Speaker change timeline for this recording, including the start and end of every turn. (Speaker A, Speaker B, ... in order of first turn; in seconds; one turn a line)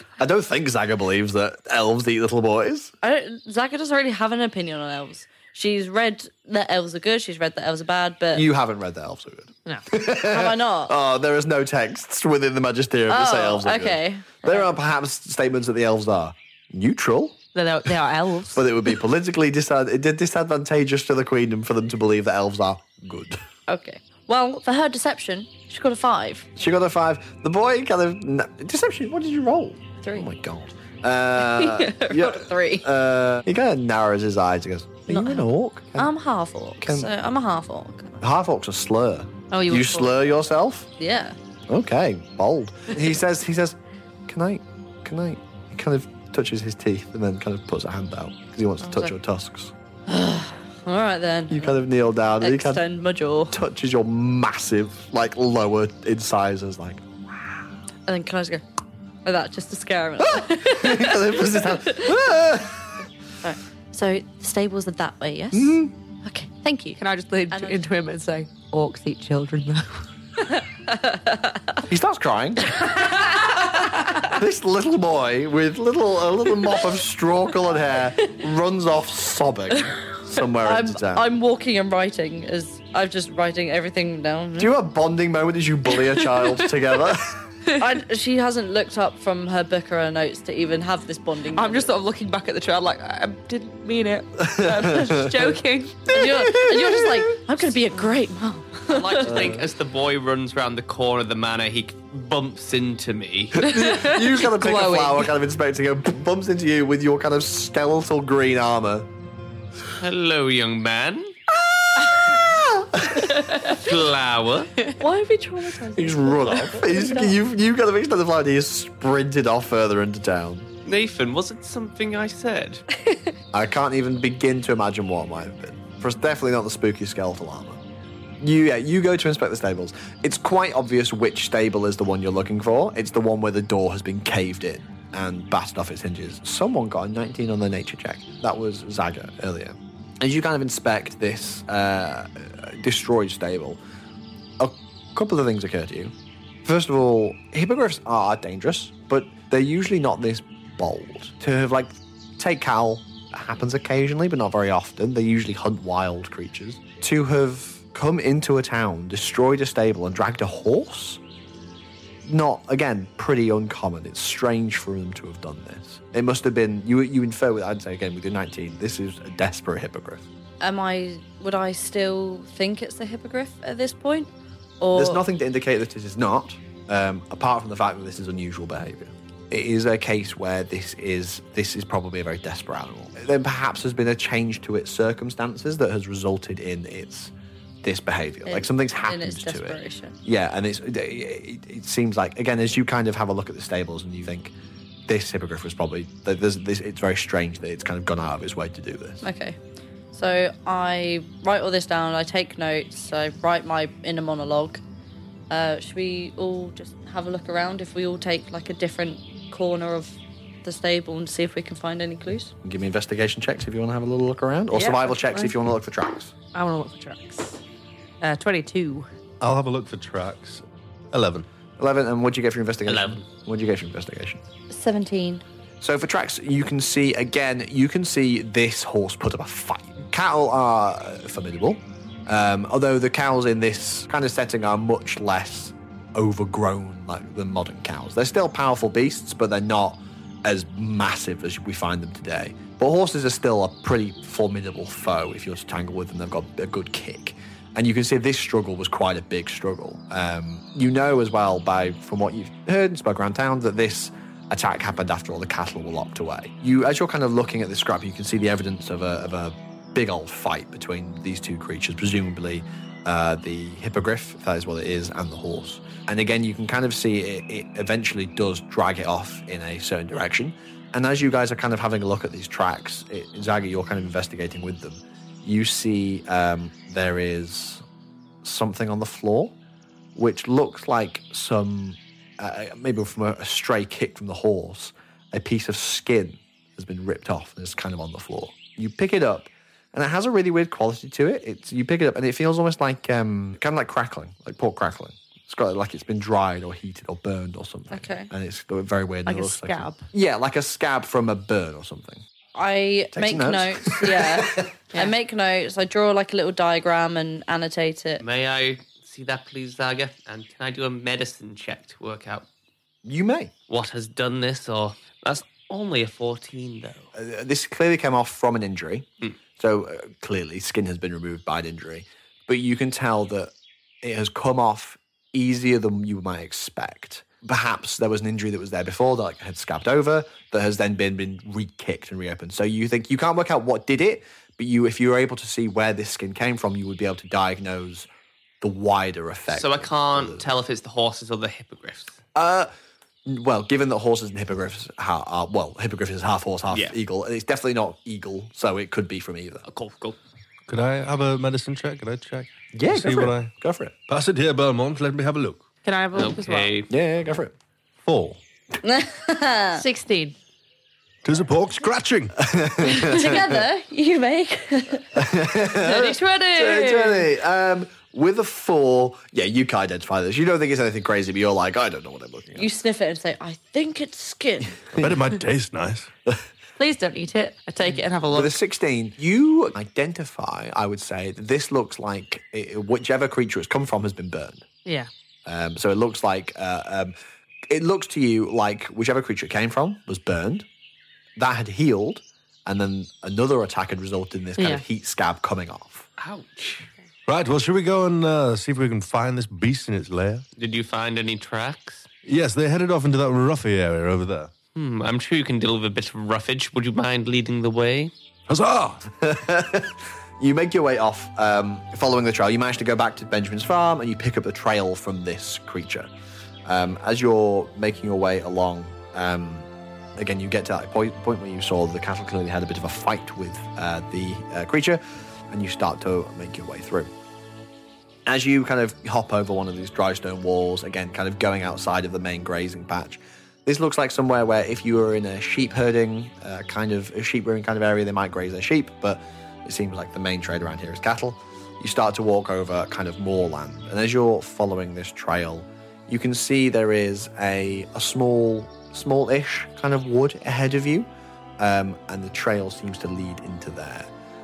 Speaker A: 0.2-2.9
Speaker B: 3.0-8.4
Speaker A: 8.3-17.4
Speaker B: 10.1-10.9
Speaker B: 13.1-14.7
Speaker C: 17.5-18.6
Speaker A: 18.5-23.4
Speaker B: 23.7-26.5
Speaker A: 26.6-36.1
Speaker B: 31.4-32.9
Speaker B: 35.1-35.4
Speaker B: 36.0-38.2
Speaker A: 36.8-37.1
Speaker A: 38.2-40.9
Speaker C: 39.5-40.1
Speaker B: 41.0-41.4
Speaker A: 41.7-49.7
Speaker B: 48.9-49.1
Speaker B: 50.1-51.8
Speaker A: 51.5-52.9
Speaker B: 52.4-53.5
Speaker A: 53.5-57.6
Speaker B: 58.1-58.6
Speaker B: 59.2-62.2
Speaker A: 60.2-63.0
Speaker B: 63.4-67.0
Speaker A: 65.5-65.9
Speaker C: 67.0-70.0
Speaker B: 67.5-67.8
Speaker B: 70.5-71.8
Speaker A: 71.8-73.2
Speaker B: 72.8-73.6
Speaker A: 74.1-81.3
Speaker B: 80.6-84.7
Speaker A: 84.6-87.4
Speaker B: 87.8-91.9
Speaker C: 91.5-96.1
Speaker A: 94.4-95.5
Speaker B: 96.1-99.5
Speaker A: 96.1-97.3
Speaker D: 98.9-103.7
Speaker A: 99.3-99.7
Speaker A: 103.5-109.1
Speaker C: 103.7-105.3
Speaker D: 110.0-111.3
Speaker A: 111.6-113.4
Speaker D: 113.6-114.7
Speaker B: 115.0-117.4
Speaker A: 115.9-120.7
Speaker D: 120.8-122.8
Speaker A: 123.5-127.8
Speaker A: 128.4-143.8
Speaker A: 144.6-161.2
Speaker A: 162.2-170.2
Speaker B: 170.6-175.2
Speaker A: 174.9-194.5
Speaker B: 188.4-190.2
Speaker A: 195.1-199.2
Speaker B: 199.2-199.6
Speaker B: 200.1-204.8
Speaker B: 205.5-212.5
Speaker A: 212.6-216.3
Speaker C: 214.7-215.6
Speaker C: 216.5-217.6
Speaker C: 218.2-219.1
Speaker E: 219.4-221.4
Speaker A: 221.8-224.4
Speaker D: 222.9-223.2
Speaker B: 224.7-225.4
Speaker A: 225.8-277.8
Speaker A: 278.4-279.5
Speaker A: 280.1-302.2
Speaker B: 297.9-298.3
Speaker C: 299.2-300.1
Speaker B: 302.5-308.2
Speaker A: 303.1-304.7
Speaker D: 308.2-312.5
Speaker A: 313.0-313.5
Speaker D: 313.7-317.1
Speaker A: 317.1-319.1
Speaker A: 319.6-338.1
Speaker A: 338.6-340.5
Speaker D: 339.5-342.2
Speaker A: 342.3-342.7
Speaker A: 343.2-349.6
Speaker D: 346.7-346.9
Speaker D: 349.7-350.2
Speaker E: 350.7-353.5
Speaker A: 352.7-353.9
Speaker E: 354.1-355.6
Speaker C: 355.8-356.8
Speaker D: 356.1-356.9
Speaker A: 356.9-357.5
Speaker E: 358.0-358.4
Speaker B: 358.8-359.8
Speaker C: 359.7-360.3
Speaker E: 361.2-362.4
Speaker A: 362.4-363.6
Speaker B: 362.8-367.2
Speaker A: 365.1-372.7
Speaker B: 372.5-374.9
Speaker E: 374.9-376.1
Speaker C: 376.8-378.5
Speaker A: 378.3-384.6
Speaker C: 384.8-385.1
Speaker A: 385.4-387.1
Speaker A: 387.7-390.7
Speaker A: 391.4-396.1
Speaker C: 394.6-394.8
Speaker D: 396.2-396.9
Speaker E: 397.3-400.4
Speaker D: 400.6-402.1
Speaker E: 402.2-404.5
Speaker D: 404.7-408.1
Speaker E: 408.5-409.0
Speaker A: 409.1-416.1
Speaker A: 416.6-427.1
Speaker A: 428.2-454.1